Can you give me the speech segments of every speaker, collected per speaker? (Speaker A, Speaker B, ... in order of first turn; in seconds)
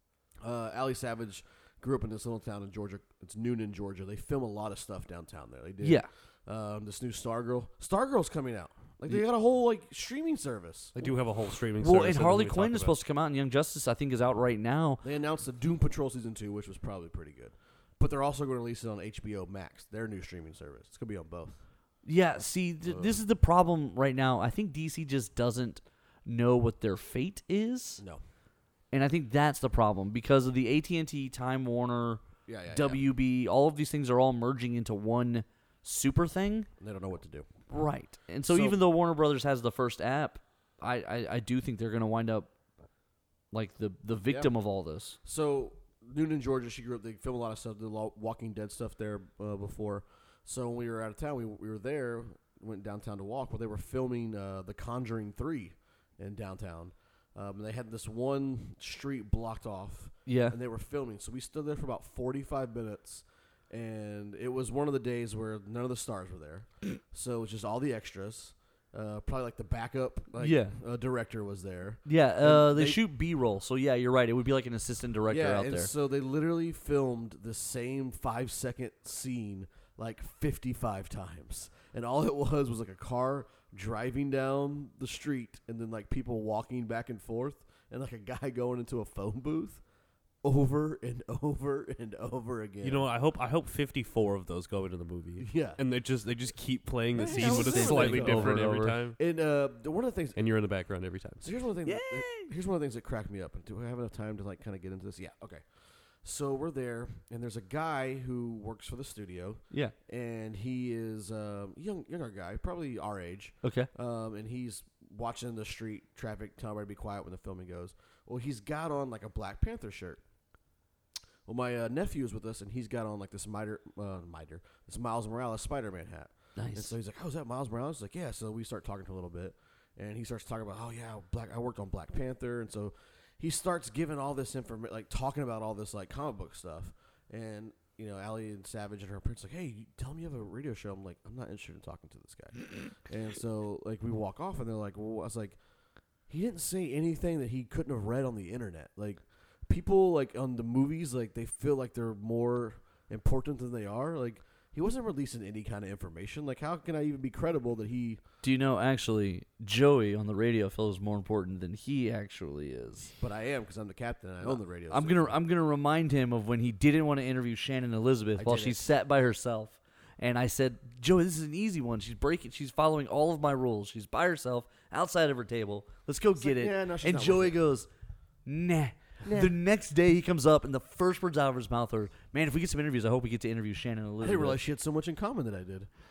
Speaker A: 0.4-11.1, 15.0-21.6, 22.8-23.2, 32.5-33.0, 36.8-37.5, 38.5-38.8, 45.2-73.0, 75.3-89.8, 90.4-93.1, 95.4-95.8, 97.2-100.4, 101.4-105.6, 106.2-120.2, 121.5-145.6, 146.3-158.2, 163.2-165.3, 168.4-168.9, 176.4-177.6, 179.2-179.5, 184.2-185.9
Speaker B: 5.8-6.1, 11.8-15.0, 22.0-28.0, 28.9-36.7, 37.7-42.5, 43.5-45.2, 60.2-60.6, 70.4-70.8, 72.0-75.9, 97.2-99.0, 101.8-102.5, 113.6-113.9, 126.5-126.9, 158.4-163.1, 164.4-177.9, 178.4-184.6
Speaker C: 10.9-13.0, 92.8-99.2, 100.3-101.5